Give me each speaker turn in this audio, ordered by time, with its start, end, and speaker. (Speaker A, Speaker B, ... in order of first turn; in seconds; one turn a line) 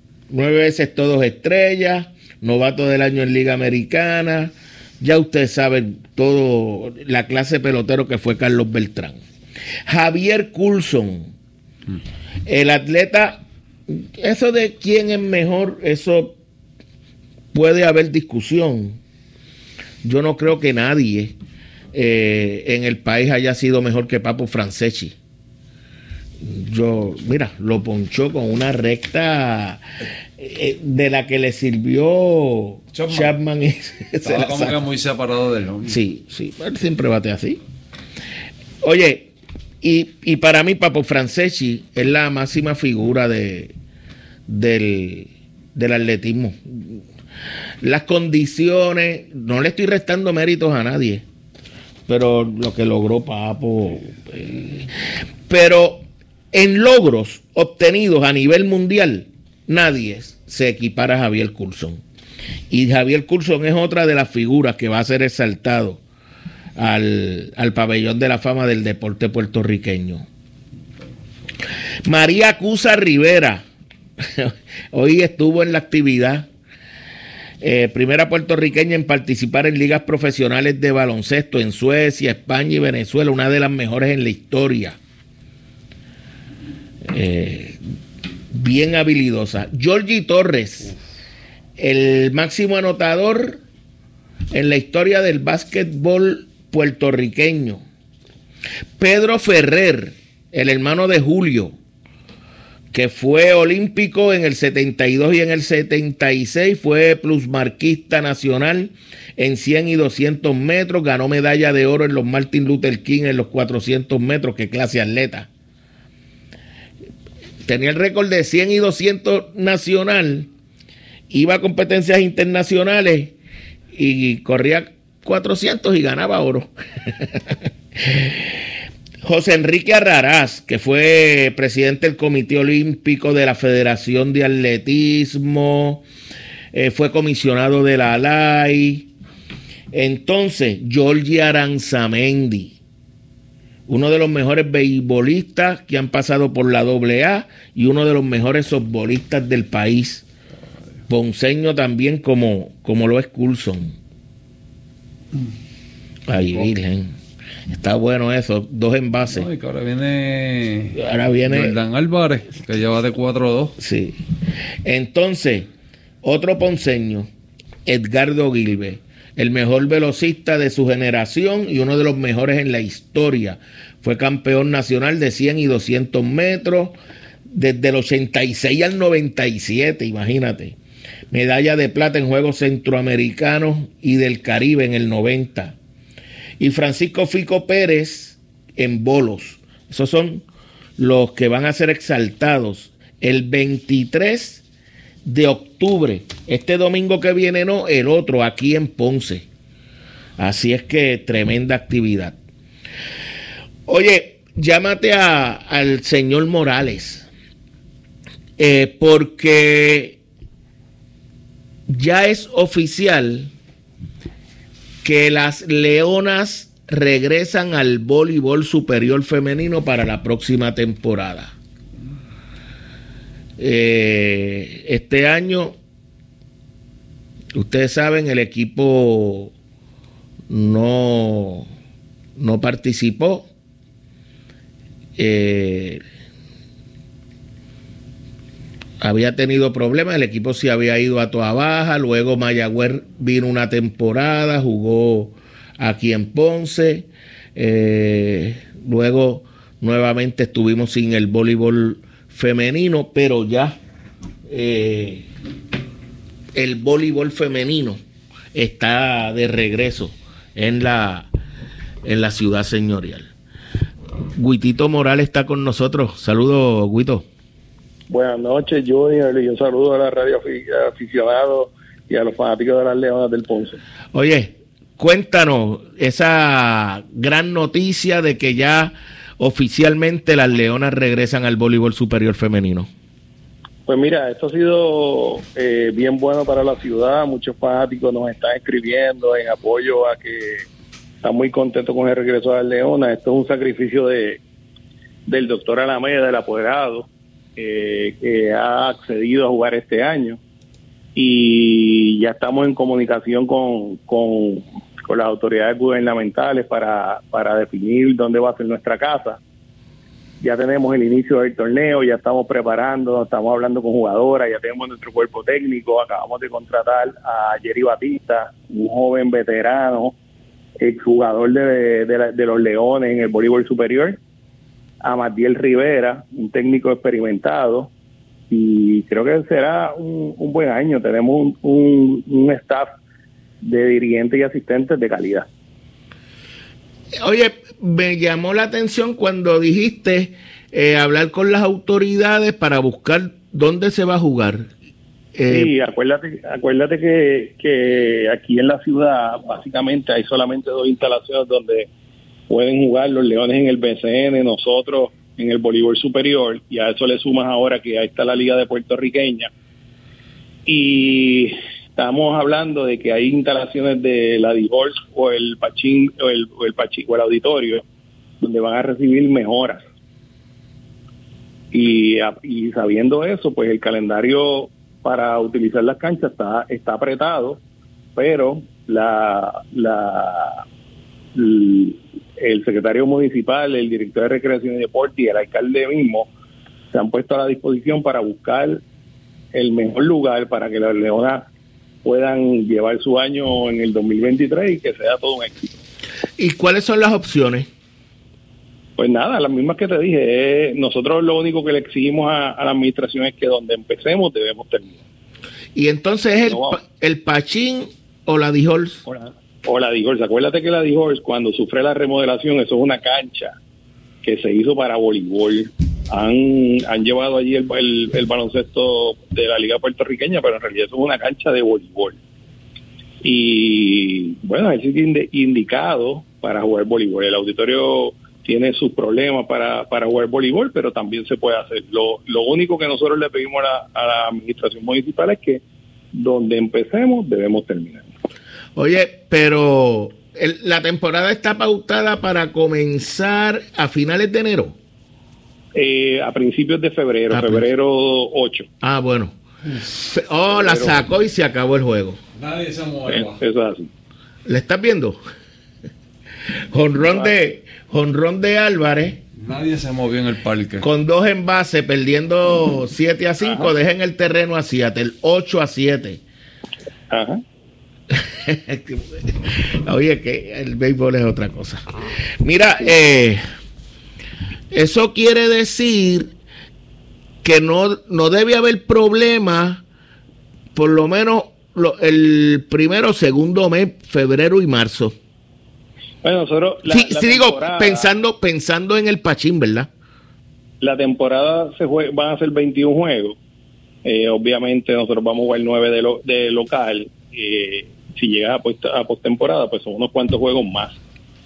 Speaker A: 0.3-9.2
Speaker A: 9.9-11.3
Speaker A: 12.4-16.4
Speaker A: 17.5-19.0
Speaker A: 20.0-21.3
Speaker A: 21.9-25.1
Speaker A: 26.4-29.8
Speaker A: 30.4-34.8
Speaker B: 32.9-33.3
Speaker B: 34.2-36.0
Speaker A: 35.9-37.6
Speaker A: 38.8-39.3
Speaker A: 39.8-43.7
Speaker A: 44.5-47.0
Speaker A: 47.8-51.2
Speaker A: 52.1-54.9
Speaker A: 55.5-62.0
Speaker A: 62.7-66.0
Speaker A: 66.8-70.2
Speaker A: 72.0-73.6
Speaker A: 74.2-76.5
Speaker A: 77.6-85.0
Speaker A: 87.1-87.8
Speaker A: 88.5-90.9
Speaker A: 91.8-93.6
Speaker A: 94.5-97.8
Speaker A: 99.0-101.7
Speaker A: 102.9-115.5
Speaker A: 117.6-120.5
Speaker A: 121.3-123.3
Speaker A: 123.9-128.5
Speaker A: 129.2-136.0
Speaker A: 136.7-139.1
Speaker A: 139.9-142.7
Speaker A: 143.9-150.2
Speaker A: 151.1-153.9
Speaker A: 156.3-157.1
Speaker A: 157.7-159.5
Speaker B: 159.3-160.9
Speaker A: 160.9-161.7
Speaker B: 161.5-163.8
Speaker A: 163.8-164.2
Speaker A: 164.8-165.7
Speaker A: 166.2-167.3
Speaker A: 167.8-176.9
Speaker A: 177.5-180.8
Speaker A: 181.3-185.7
Speaker A: 186.6-190.4
Speaker A: 191.0-194.6
Speaker A: 195.2-199.4
Speaker A: 200.4-202.4
Speaker A: 203.8-207.2
Speaker A: 208.6-210.2
Speaker A: 211.9-213.5
Speaker A: 215.0-221.5
Speaker A: 223.6-225.8
Speaker A: 227.5-229.5
Speaker A: 230.5-231.7
Speaker A: 232.4-233.5
Speaker A: 235.2-236.0
Speaker A: 239.0-253.8
Speaker A: 254.5-255.2
Speaker A: 256.5-258.0
Speaker A: 258.5-261.3
Speaker A: 262.0-263.3
Speaker A: 264.4-267.2
Speaker C: 268.1-273.8
Speaker A: 274.1-282.9
Speaker C: 283.9-290.6
Speaker C: 291.2-294.4
Speaker C: 295.3-300.4
Speaker C: 301.1-309.4
Speaker C: 310.4-320.1
Speaker C: 320.8-324.2
Speaker C: 325.0-327.9
Speaker C: 328.5-332.9
Speaker C: 333.6-335.5
Speaker A: 337.2-344.7
Speaker A: 345.3-345.7
Speaker C: 345.5-351.9
Speaker C: 352.5-359.5
Speaker C: 360.6-367.8
Speaker C: 368.4-369.8
Speaker C: 371.7-377.6
Speaker C: 378.1-380.6
Speaker C: 381.3-386.3
Speaker C: 386.9-388.8
Speaker C: 389.5-391.4
Speaker C: 392.0-395.7
Speaker A: 396.4-397.7
Speaker C: 399.0-405.0
Speaker A: 405.7-409.0
Speaker C: 406.5-406.8
Speaker C: 409.1-413.5
Speaker C: 414.2-422.2
Speaker C: 423.2-435.6
Speaker C: 436.1-438.1
Speaker A: 438.8-444.8
Speaker C: 445.7-448.7
Speaker A: 447.3-447.7
Speaker A: 448.8-449.3
Speaker A: 449.9-452.2
Speaker C: 450.5-451.0
Speaker B: 452.4-453.4
Speaker C: 453.1-453.9
Speaker A: 454.4-455.2
Speaker A: 456.7-459.2
Speaker B: 459.4-460.9
Speaker A: 460.8-466.2
Speaker C: 463.4-463.7
Speaker C: 467.1-467.4
Speaker A: 468.1-471.8
Speaker A: 472.4-473.4
Speaker A: 474.7-476.3
Speaker A: 477.4-479.8
Speaker A: 480.7-485.1
Speaker C: 486.2-488.1
Speaker A: 486.9-489.9
Speaker C: 490.8-493.4
Speaker C: 494.0-501.0